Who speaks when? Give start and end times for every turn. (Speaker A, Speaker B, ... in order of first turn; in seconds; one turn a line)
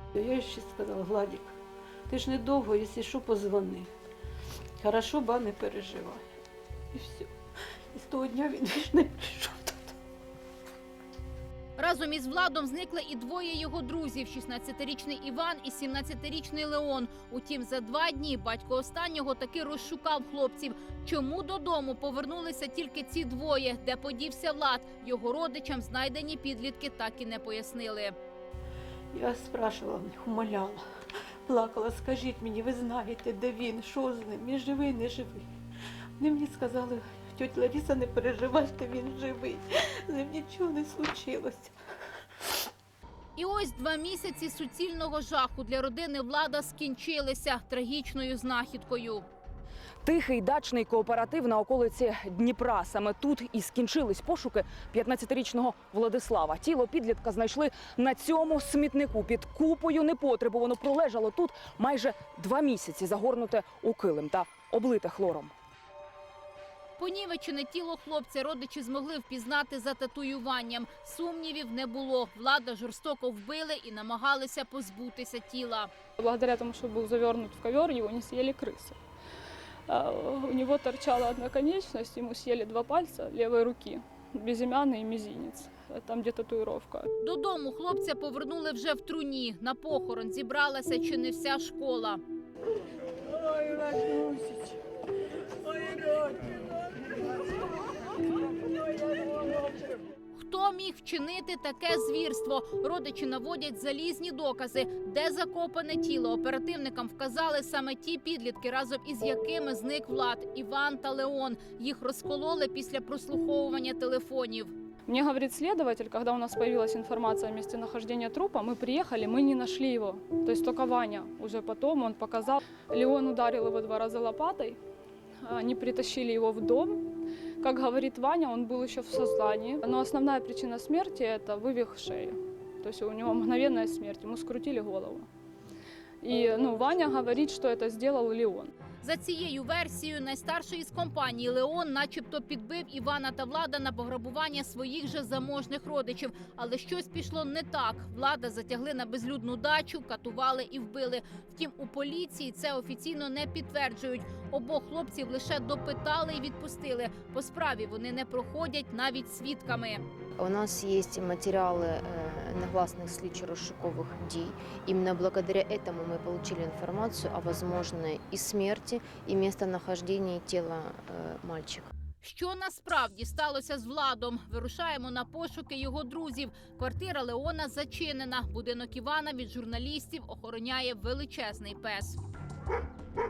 Speaker A: 0.2-1.5
Speaker A: 2.1-3.9
Speaker A: 4.8-6.2
Speaker A: 6.9-7.3
Speaker A: 8.0-9.9
Speaker B: 11.8-28.1
Speaker A: 29.1-30.8
Speaker A: 31.5-35.5
Speaker A: 36.2-41.7
Speaker B: 43.4-49.3
Speaker C: 50.0-65.5
Speaker B: 67.0-75.9
Speaker D: 76.2-79.0
Speaker D: 79.9-87.1
Speaker B: 87.2-92.2
Speaker B: 100.3-114.7
Speaker D: 115.1-124.8
Speaker D: 125.4-127.1
Speaker D: 127.6-135.3
Speaker D: 136.2-138.7
Speaker B: 139.0-160.0
Speaker E: 160.4-171.9
Speaker B: 172.2-182.2